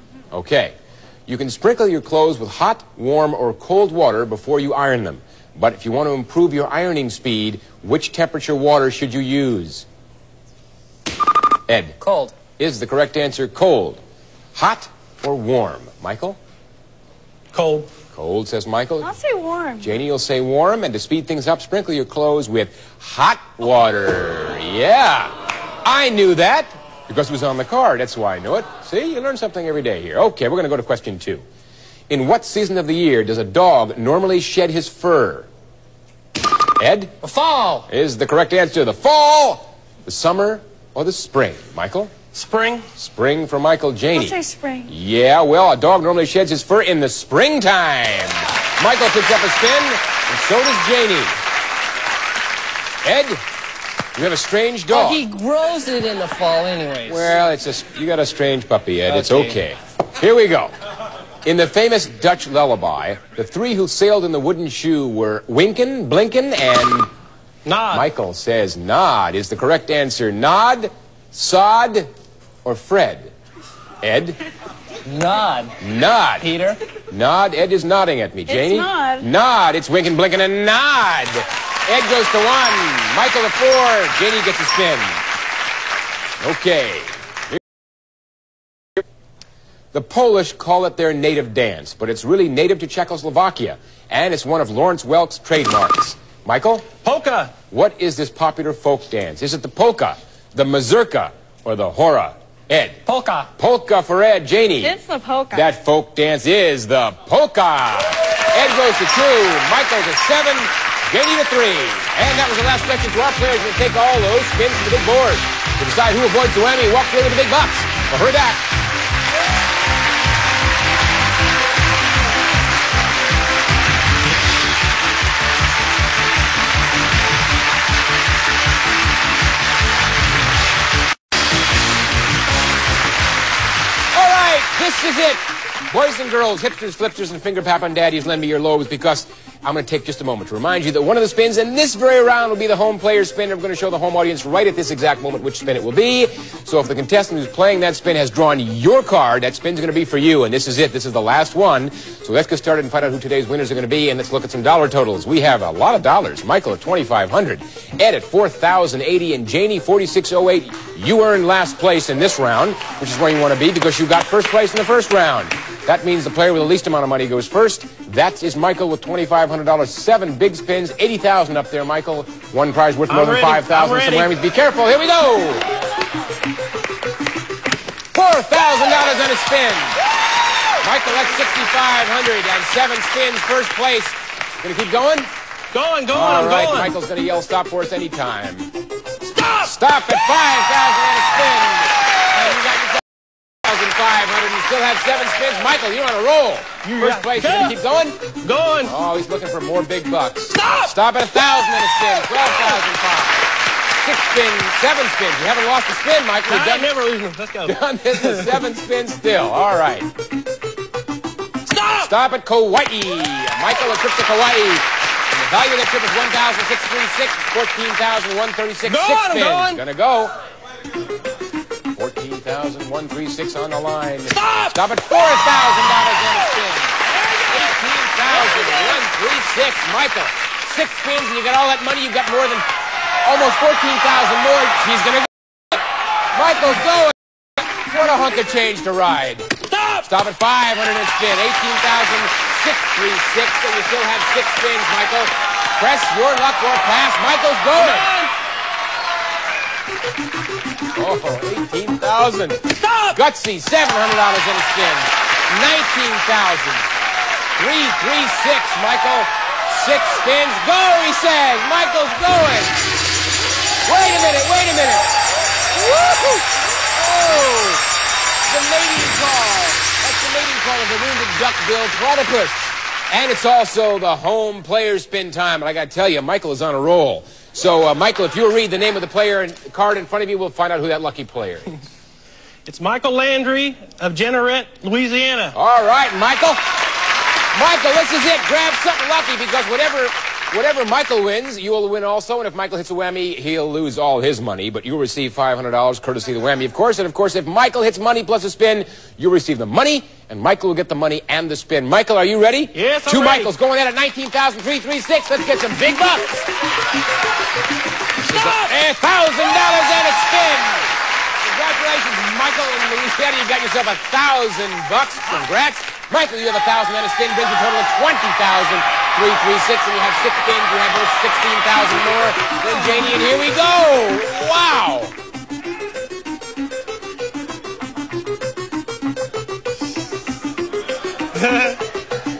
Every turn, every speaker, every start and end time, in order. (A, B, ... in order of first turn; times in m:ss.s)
0:00.3-0:00.7 A
0:01.3-0:09.9 A
0:11.7-0:12.0 A
0:12.0-0:12.3 B
0:12.5-0:14.0 A
0:14.6-0:16.4 A
0:17.5-0:17.9 B
0:18.1-0:19.2 A
0:19.0-0:19.9 C
0:19.8-0:25.3 A
0:25.8-0:31.4 A
0:32.1-0:35.5 A
0:36.8-0:37.2 A
0:37.2-0:37.8 B
0:37.2-0:37.8 D
0:37.9-0:42.1 A
0:42.3-0:42.9 B
0:43.0-0:51.3 A
0:44.2-0:44.9 C
0:53.0-0:53.4 A
0:54.2-0:55.2 A
0:54.9-0:57.1 D
0:55.8-0:57.3 B
0:57.1-1:00.7 A
0:59.1-0:59.6 B
1:01.4-1:07.1 A
1:07.6-1:08.1 B
1:07.9-1:12.1 A
1:12.6-1:13.3 A
1:14.0-1:14.4 A
1:15.1-1:15.7 B
1:15.2-1:15.7 D
1:15.8-1:16.5 A
1:16.4-1:16.8 B
1:17.1-1:25.2 A
1:18.5-1:19.3 C
1:26.4-1:27.6 A
1:29.9-1:36.9 A
1:37.0-1:37.5 B
1:37.7-1:43.0 A
1:43.1-1:43.5 B
1:43.6-1:45.0 A
1:44.8-1:45.7 C
1:45.5-1:58.6 A
2:14.1-2:55.7 A
2:53.1-2:54.3 B
2:58.1-3:00.0 A
3:00.8-3:05.3 A
3:05.7-3:07.0 B
3:06.1-3:08.7 A
3:09.3-3:09.7 B
3:09.6-3:13.0 A
3:13.6-3:18.2 A
3:16.8-3:17.8 B
3:18.4-3:19.0 B
3:18.9-3:27.0 A
3:20.6-3:20.9 B
3:26.5-3:28.6 B
3:27.6-3:30.1 A
3:31.7-3:32.1 B
3:32.0-3:40.3 A
3:38.8-3:39.8 B
3:41.9-3:52.7 A
3:44.3-3:44.8 B
3:47.1-3:47.7 B
3:48.3-3:49.0 B
3:53.2-3:55.8 A
3:56.3-3:57.2 A
3:57.7-3:59.5 A
3:59.7-4:00.1 B
4:00.0-4:08.1 A
4:07.8-4:08.3 B
4:11.0-4:16.9 A
4:12.8-4:13.2 B
4:17.6-4:22.8 A
4:23.8-4:25.1 A
4:25.8-4:27.8 A
4:28.5-4:41.8 A
4:42.7-4:45.6 B
4:45.5-4:46.6 A
4:47.5-5:06.5 A
5:02.7-5:03.5 B
5:08.2-5:25.1 A
5:08.3-5:08.7 B
5:31.4-5:31.8 B